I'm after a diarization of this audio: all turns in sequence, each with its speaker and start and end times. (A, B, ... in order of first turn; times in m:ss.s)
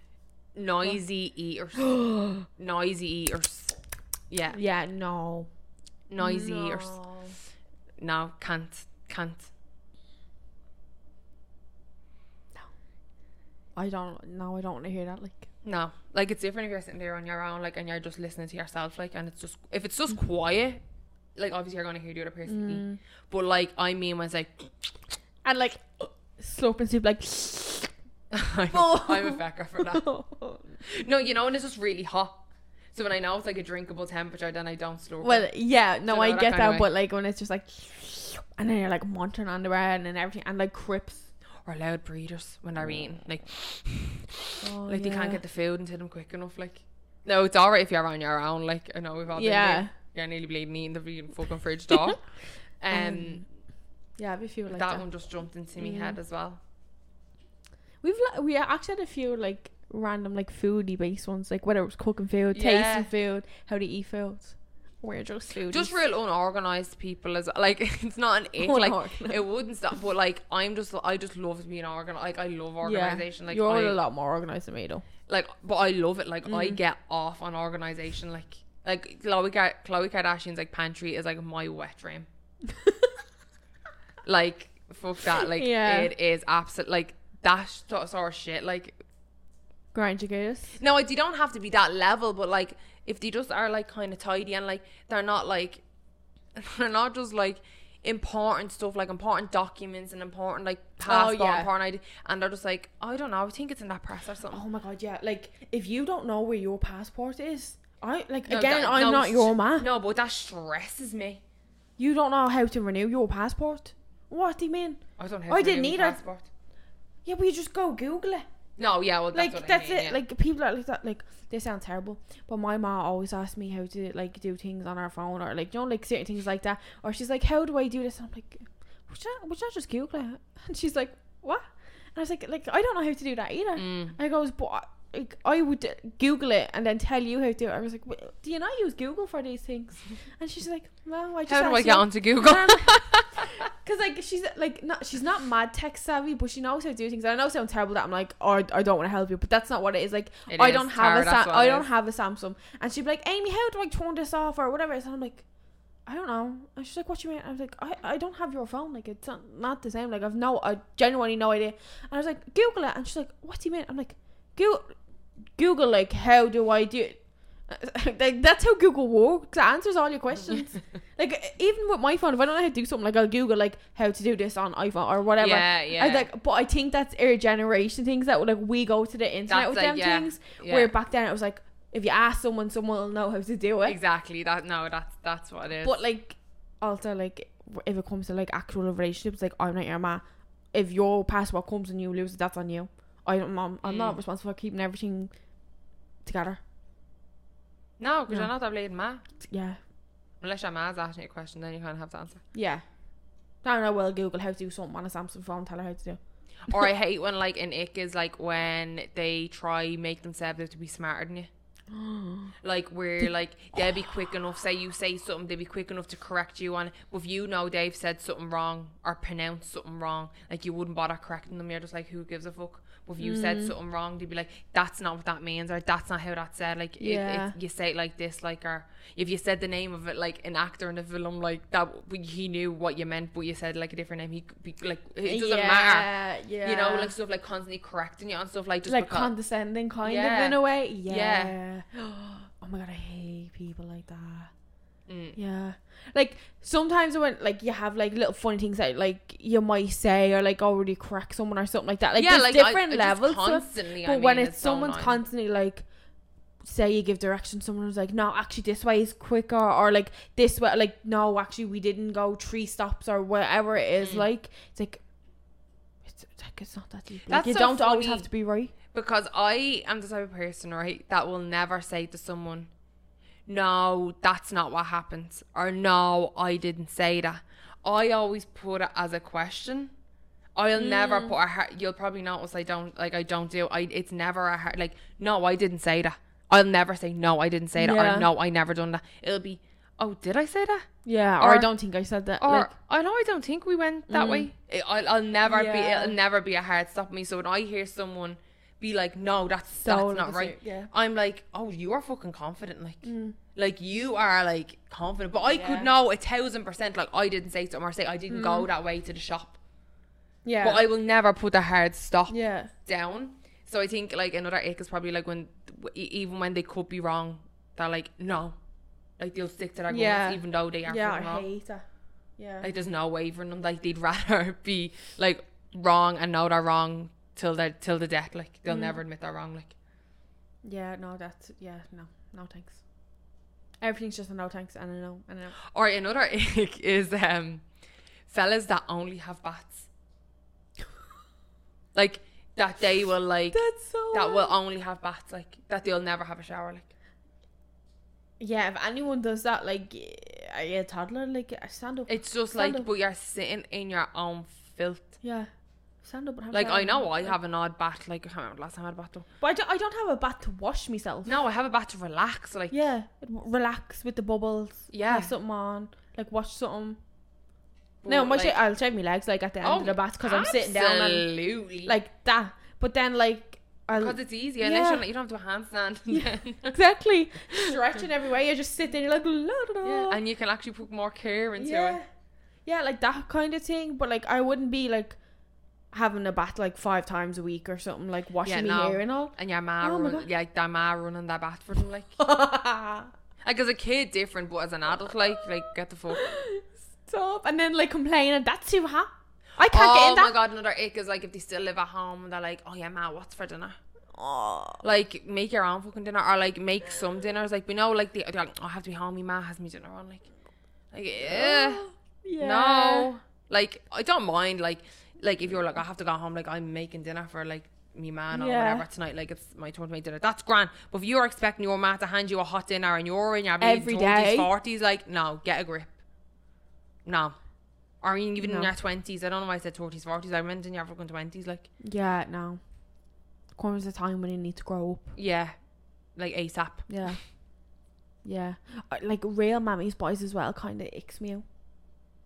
0:00.6-0:03.8 A
0:01.8-0:02.5 B
0:04.3-0:04.6 A
0:04.5-0:05.5 B
0:06.1-0:07.4 A
0:06.2-0:07.0 B
0:08.0-0:09.5 A
0:13.8-0:15.5 B
0:15.6-0:20.8 A
0:21.4-0:24.9 A
0:22.5-0:23.0 B
0:25.4-0:27.9 B
0:28.3-0:30.1 A
0:28.7-0:30.8 B
0:30.8-0:32.4 A
0:32.9-0:35.5 A
0:35.2-0:41.3 B
0:36.1-0:36.9 A
0:41.6-0:52.2 A
0:44.6-0:45.4 B
0:49.4-0:49.9 B
0:52.8-0:53.4 A
0:52.9-0:53.4 B
0:54.2-0:55.1 B
0:54.7-0:56.6 A
0:55.8-0:56.2 B
0:58.0-1:06.0 B
1:02.5-1:03.1 A
1:05.7-1:14.0 A
1:08.6-1:09.4 B
1:12.8-1:15.0 B
1:15.3-1:22.3 A
1:16.5-1:16.8 B
1:22.7-1:23.1 B
1:24.2-1:29.0 A
1:25.5-1:26.1 B
1:29.9-1:30.8 B
1:30.8-1:35.8 A
1:36.6-1:44.6 A
1:41.0-1:41.7 B
1:44.5-1:49.9 B
1:48.5-1:51.4 A
1:52.0-1:56.2 B
1:55.2-1:56.5 A
1:57.2-1:58.5 B
1:58.8-2:00.2 A
1:59.3-2:35.4 B
2:13.8-2:14.2 A
2:21.5-2:23.6 A
2:30.5-2:31.9 A
2:36.1-2:44.9 B
2:45.6-3:04.0 B
2:55.4-2:56.3 A
2:59.5-3:00.9 A
3:03.8-3:06.0 A
3:05.8-3:15.3 B
3:13.8-3:14.2 A
3:16.2-3:16.6 B
3:18.0-3:19.2 A
3:19.4-3:19.8 B
3:20.4-3:22.4 A
3:22.5-3:22.8 B
3:23.6-3:26.2 B
3:26.7-3:31.5 A
3:31.9-3:32.5 B
3:32.6-3:56.1 A
3:43.2-3:43.7 B
3:47.0-3:47.6 B
3:55.2-3:57.1 B
3:56.6-3:59.3 A
3:58.9-4:04.5 B
4:00.0-4:01.6 A
4:05.1-4:05.4 A
4:05.4-4:15.8 B
4:12.2-4:15.2 A
4:16.6-4:25.0 B
4:24.0-4:24.3 A
4:26.1-4:28.7 B
4:27.3-4:28.3 A
4:28.9-4:32.7 A
4:33.5-4:39.9 A
4:40.6-4:50.9 A
4:40.8-4:41.4 B
4:47.8-4:48.3 B
4:51.0-4:52.7 B
4:51.4-4:51.7 A
4:52.4-5:09.6 A
4:54.1-4:54.5 B
4:55.5-4:56.2 B
4:59.7-5:00.9 B
5:03.0-5:03.4 B
5:05.5-5:05.9 B
5:08.3-5:08.7 B
5:10.4-5:10.8 B
5:10.6-5:18.6 A
5:12.3-5:12.7 B
5:19.2-5:21.5 A
5:19.9-5:21.8 B
5:22.4-5:22.7 B
5:22.6-5:29.7 A
5:28.7-5:29.0 B
5:30.6-5:32.8 B
5:33.8-5:35.6 B
5:35.6-5:37.6 A
5:38.3-5:39.9 A
5:42.0-5:46.9 A
5:43.5-5:44.6 B
5:48.4-5:52.9 B
5:52.1-5:55.2 A
5:55.2-5:55.5 B
5:56.0-5:57.3 B
5:56.5-5:59.3 A
5:59.4-6:01.3 B
6:01.2-6:02.7 A
6:02.7-6:07.0 B
6:04.9-6:05.3 A
6:08.0-6:08.6 A
6:08.1-6:11.3 B
6:09.6-6:11.9 A
6:11.8-6:15.0 B
6:14.0-6:16.8 A
6:16.1-6:20.2 B
6:19.8-6:22.0 A
6:21.6-6:22.1 B
6:22.7-6:25.2 B
6:25.9-6:30.3 B
6:28.4-6:32.2 A
6:32.2-6:33.1 B
6:33.4-6:36.2 A
6:36.1-6:40.4 B
6:39.7-6:43.8 A
6:44.1-6:44.8 B
6:44.8-6:50.3 A
6:50.9-6:51.8 A
6:51.2-6:53.1 B
6:52.4-7:05.9 A
6:58.3-6:58.9 B
7:03.6-7:04.5 B
7:07.0-7:07.4 A
7:08.0-7:11.7 A
7:08.4-7:08.7 B
7:11.8-7:12.6 B
7:13.6-7:15.2 B
7:15.2-7:15.5 A
7:16.2-7:16.9 A
7:16.9-7:17.2 B
7:18.2-7:21.4 B